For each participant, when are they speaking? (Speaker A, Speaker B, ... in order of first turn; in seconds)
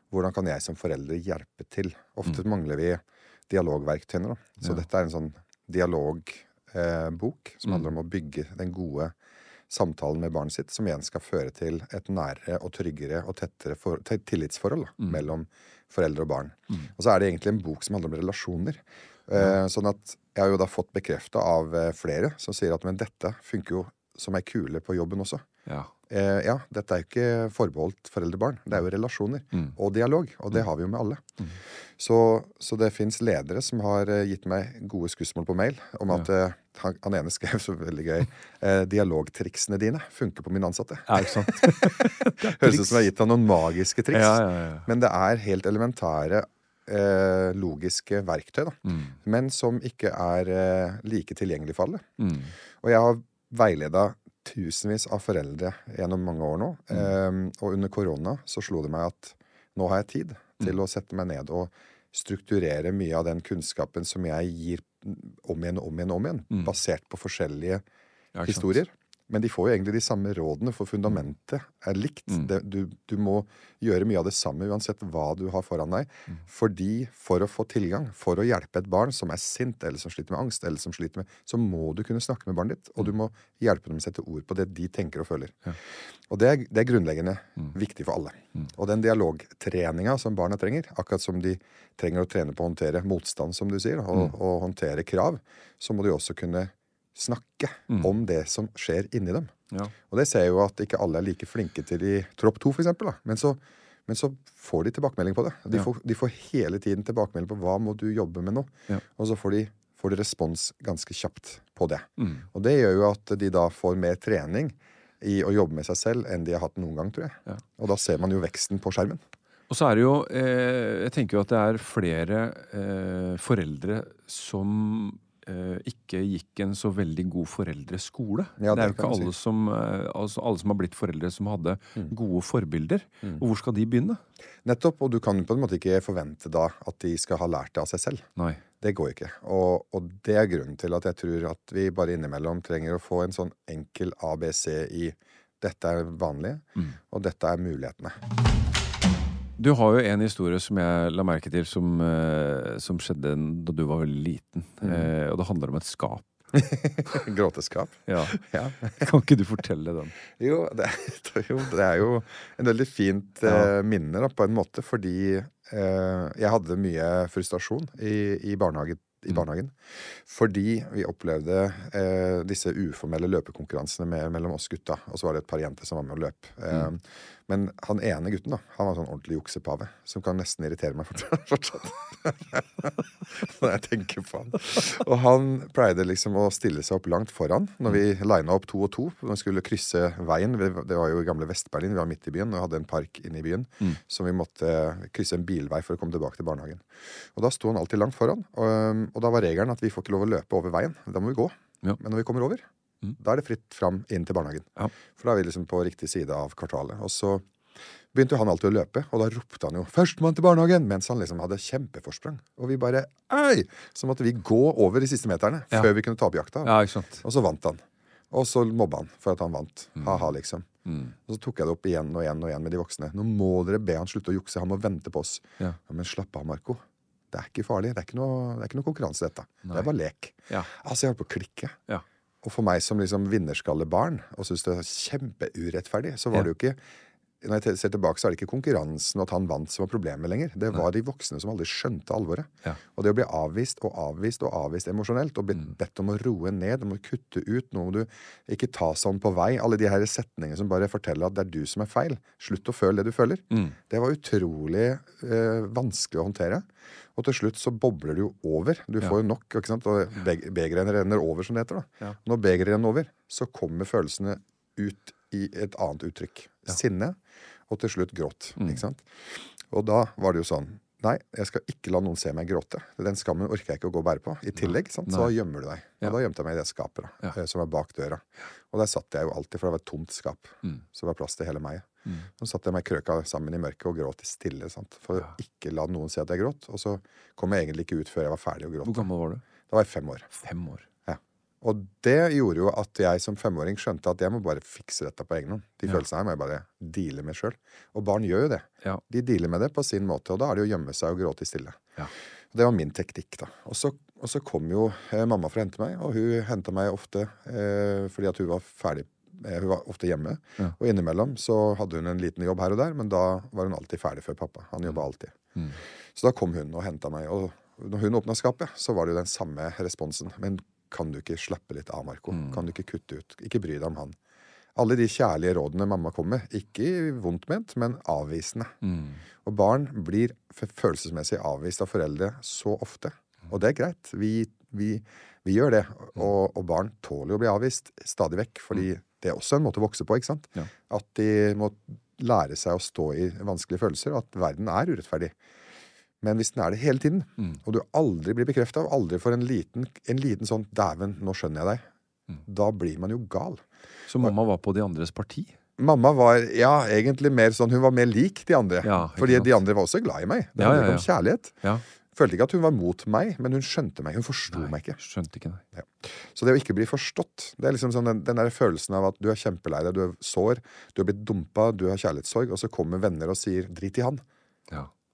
Speaker A: 0.1-9.1, 9.7-25.4, 26.1-31.2, 32.0-52.1, 52.8-67.8, 68.4-85.7, 86.3-99.5, 100.1-119.2, 128.6-129.3, 134.6-138.3, 138.8-148.2, 154.8-155.1, 156.5-159.0, 160.3-202.7, 203.2-207.4, 208.1-220.7, 221.2-231.8, 232.4-236.8, 237.4-267.2, 267.7-289.1, 289.7-290.3, 291.1-301.8, 302.5-315.4, 316.1-324.2, 324.8-328.8, 329.4-345.3, 346.2-351.9, 352.4-353.6, 355.8-361.6, 362.1-365.0, 365.7-374.2
Speaker B: 41.1-43.0, 44.1-44.9, 48.9-49.1, 52.2-52.5, 68.3-68.7, 112.2-112.4, 119.7-134.2, 149.6-156.2, 158.1-158.4, 159.0-160.2, 163.4-163.7, 216.6-217.2, 220.0-220.3, 220.8-221.1, 275.1-275.3, 288.8-289.4, 290.4-290.9, 322.3-322.6, 328.8-329.2, 354.1-355.5, 358.8-359.6, 360.6-361.1, 364.5-365.6